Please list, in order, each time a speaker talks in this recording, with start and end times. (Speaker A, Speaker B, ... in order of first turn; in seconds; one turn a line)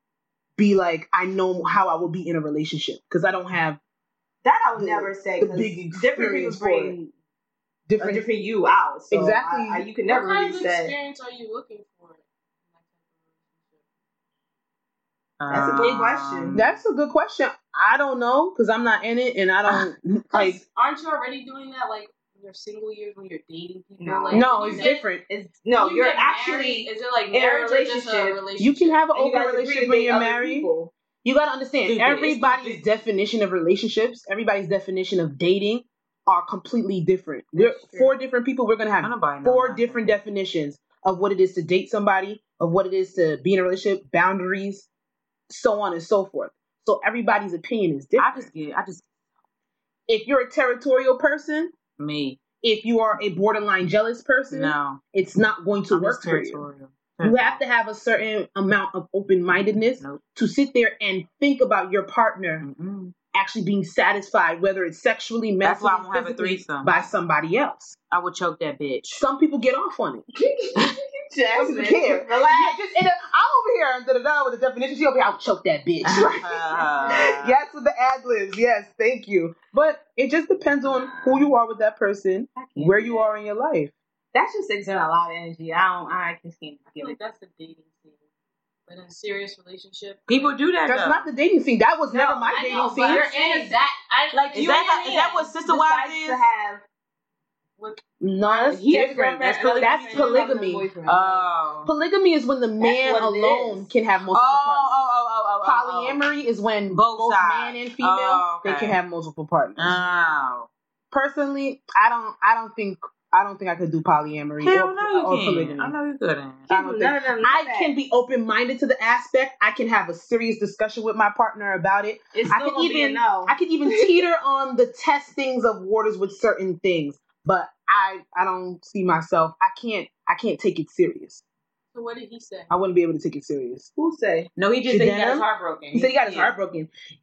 Speaker A: 0.6-3.8
Speaker B: 4.4-7.1
Speaker A: 4.8-6.9
Speaker A: 7.9-8.2
Speaker B: 8.0-10.9
Speaker A: 9.1-9.9
Speaker C: 10.1-12.2
Speaker C: 13.1-13.4
Speaker D: 15.4-16.8
Speaker B: 15.5-16.6
Speaker A: 15.8-20.6
Speaker C: 20.3-25.0
Speaker B: 24.0-28.4
Speaker A: 24.3-25.2
Speaker C: 25.7-29.0
Speaker A: 28.6-30.7
Speaker B: 29.1-30.9
Speaker A: 31.2-44.9
Speaker D: 31.8-32.8
Speaker B: 37.5-38.2
Speaker D: 39.0-40.1
Speaker A: 45.5-48.5
Speaker D: 48.2-49.0
Speaker A: 50.1-51.7
Speaker D: 52.0-52.4
Speaker A: 52.6-56.6
Speaker D: 54.5-55.0
Speaker D: 55.9-57.6
Speaker A: 57.2-62.6
Speaker D: 62.6-63.1
Speaker A: 63.3-68.0
Speaker D: 65.6-66.9
Speaker D: 68.1-69.2
Speaker A: 69.1-70.2
Speaker B: 70.3-72.9
Speaker A: 71.5-83.9
Speaker B: 76.0-77.1
Speaker D: 76.4-77.6
Speaker B: 80.8-81.5
Speaker B: 82.5-83.3
Speaker B: 84.3-87.2
Speaker C: 86.9-88.1
Speaker C: 88.9-90.5
Speaker D: 90.3-91.3
Speaker A: 90.9-93.3
Speaker B: 92.1-93.7
Speaker C: 92.4-95.5
Speaker D: 94.3-96.4
Speaker B: 94.5-96.8
Speaker A: 98.2-100.8
Speaker B: 98.5-101.5
Speaker C: 99.5-100.3
Speaker D: 101.0-101.9
Speaker A: 101.8-105.1
Speaker B: 102.8-103.9
Speaker D: 104.3-106.2
Speaker A: 105.6-110.0
Speaker D: 106.9-109.0
Speaker D: 109.8-110.7
Speaker A: 111.1-115.9
Speaker D: 114.6-116.7
Speaker B: 116.7-117.9
Speaker A: 116.7-131.4
Speaker B: 122.3-124.2
Speaker C: 131.9-132.7
Speaker A: 132.7-133.9
Speaker B: 133.9-134.5
Speaker D: 134.6-136.5
Speaker A: 134.9-136.9